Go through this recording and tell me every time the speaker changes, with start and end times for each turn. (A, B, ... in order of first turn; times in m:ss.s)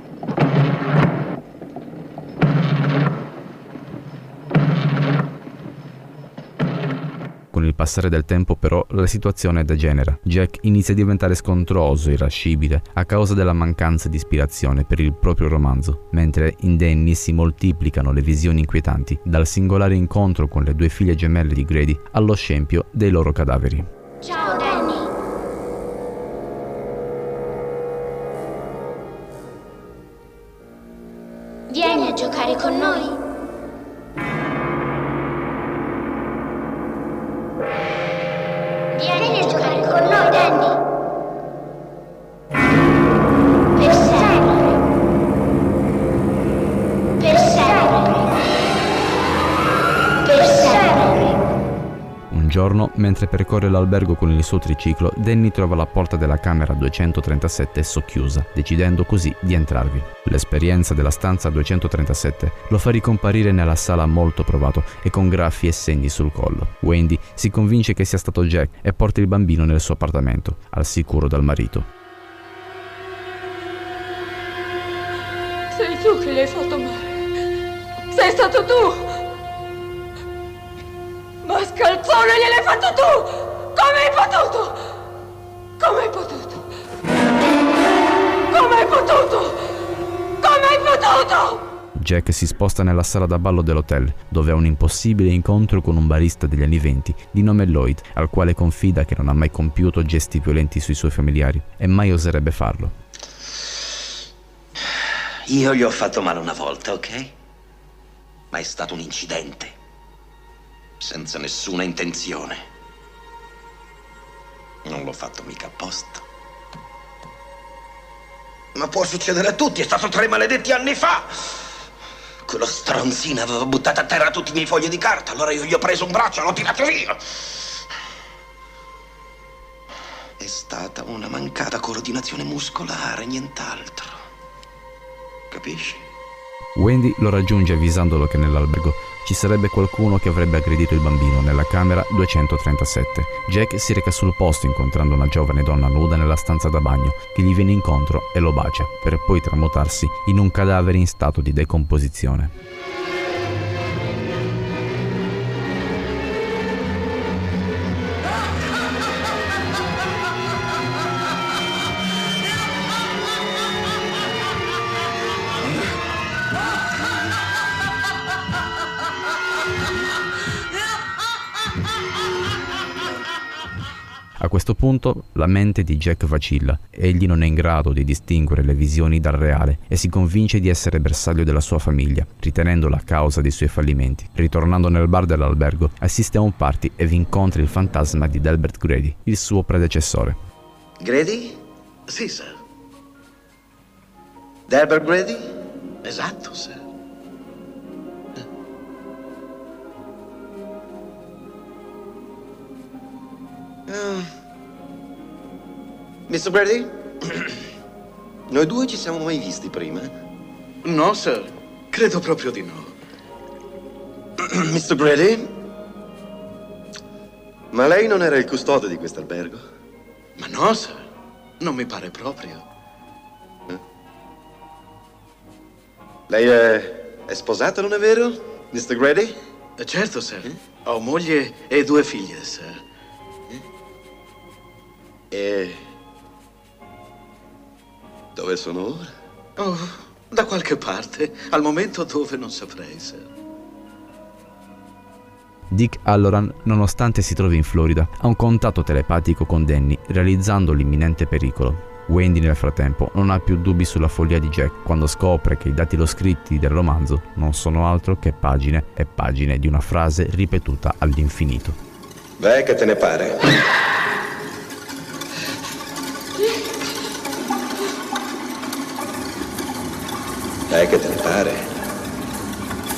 0:07.5-0:23.9 A
0:24.2-0:25.1 B
0:31.7-0:33.2 B
0:38.9-0:40.8 B
0:43.8-0:44.7 B
0:47.2-0:48.3 B
0:50.2-0:51.3 B
0:52.3-1:11.9 A
1:15.7-1:17.2 C
1:18.1-1:19.1 C
1:21.4-1:24.8 C
1:25.8-1:26.6 C
1:28.5-1:29.6 C
1:30.4-1:31.6 C
1:31.9-1:42.9 A
1:45.4-1:47.3 D
1:48.5-1:49.7 D
1:51.0-1:52.6 D
1:54.8-1:56.2 D
1:58.7-2:01.4 D
2:02.4-2:07.2 D
2:10.4-2:14.1 D
2:15.5-2:16.0 D
2:16.8-2:32.5 A
2:54.4-3:10.4 A
3:11.0-3:11.6 D
3:12.1-3:12.6 E
3:14.7-3:15.5 D
3:16.0-3:16.8 E
3:23.9-3:24.3 D
3:26.3-3:27.0 D
3:28.5-3:30.1 D
3:30.8-3:32.9 E
3:34.4-3:35.5 D
3:37.7-3:39.6 D
3:40.4-3:41.0 E
3:41.6-3:42.6 E
3:46.3-3:49.4 D
3:49.8-3:52.8 E
3:55.3-3:55.8 D
3:58.4-3:59.1 D
3:59.6-4:03.3 E
4:05.7-4:21.8 A
4:22.4-4:23.5 D
4:30.7-4:31.7 D